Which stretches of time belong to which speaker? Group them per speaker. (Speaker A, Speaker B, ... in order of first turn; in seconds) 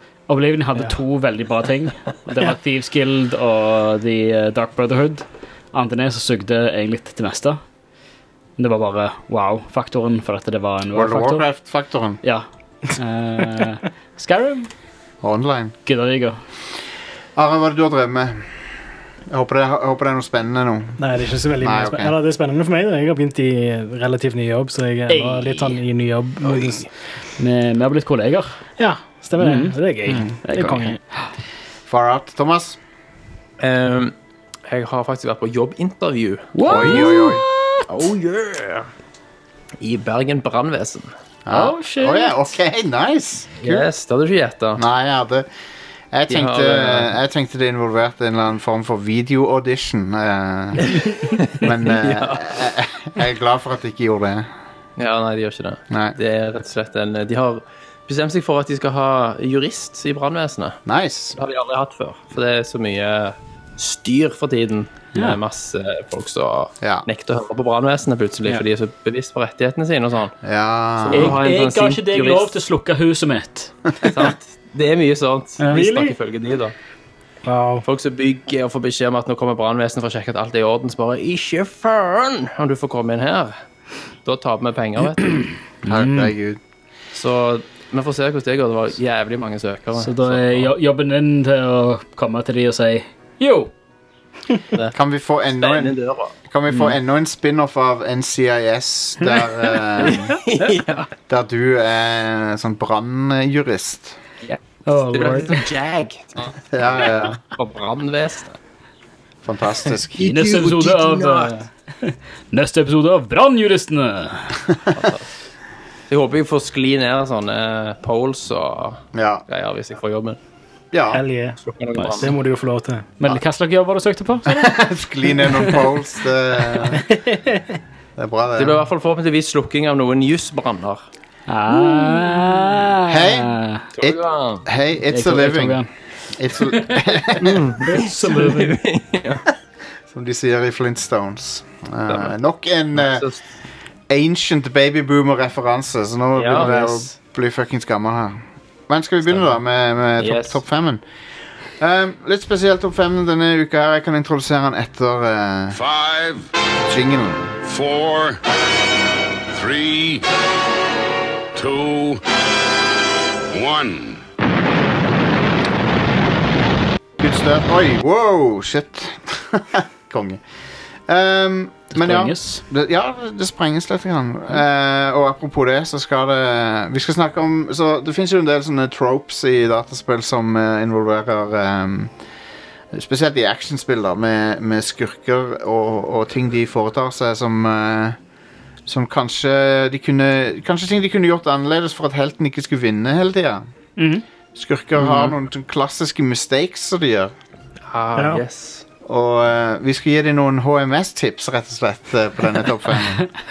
Speaker A: 0.3-7.6, 8.6-11.5, 12.2-14.7, 15.9-16.4, 25.1-25.8, 27.4-28.5, 29.4-31.3, 36.5-37.9, 41.5-42.5, 71.1-73.8, 75.6-76.2, 85.9-86.3, 90.0-93.7, 104.9-105.7, 110.2-114.6, 122.0-122.3, 123.2-124.7, 125.5-125.7, 131.5-133.8, 135.1-135.9, 136.6-138.8, 146.6-147.0, 171.9-172.6, 194.0-194.2
Speaker B: 10.9-12.2, 15.2-15.8, 17.4-18.8, 19.3-21.0, 21.6-22.2, 31.9-32.8, 36.6-37.4, 41.5-43.9, 44.8-45.5, 46.1-54.5, 55.9-56.2, 60.9-61.4, 70.4-71.4, 85.8-86.6, 94.9-100.4, 101.3-104.2, 106.7-107.4, 109.4-110.3, 119.1-119.5, 120.9-121.2, 124.5-127.0, 128.2-128.8, 133.1-137.6, 140.1-143.3, 144.1-151.0, 151.8-155.8, 156.9-157.6, 167.2-170.4, 171.1-182.1, 182.9-188.2, 188.9-193.6, 194.6-197.3, 199.1-203.3
Speaker C: 21.0-26.9, 28.8-31.0, 77.5-77.9, 121.1-121.6, 122.2-123.1, 127.2-127.7, 198.2-198.4
Speaker D: 26.4-26.9, 33.6-34.1, 34.7-37.1, 37.9-38.9, 39.8-41.1, 43.6-44.8, 46.3-47.1, 51.0-52.7, 55.0-60.8, 61.4-70.4, 71.0-72.5, 74.1-76.8, 77.8-83.5, 84.2-85.5, 87.1-90.7, 95.5-96.3, 100.0-101.1, 105.1-108.6, 110.2-111.5, 115.0-115.3, 116.1-120.4, 121.6-122.3, 128.6-131.0, 133.9-134.7, 137.4-139.5, 142.1-142.3, 142.9-143.4, 146.4-146.8, 149.3-149.6, 150.2-150.6, 195.0-195.3, 197.9-198.8
Speaker E: 155.7-156.5, 157.7-158.4, 159.5-160.2, 161.6-162.2, 163.5-164.2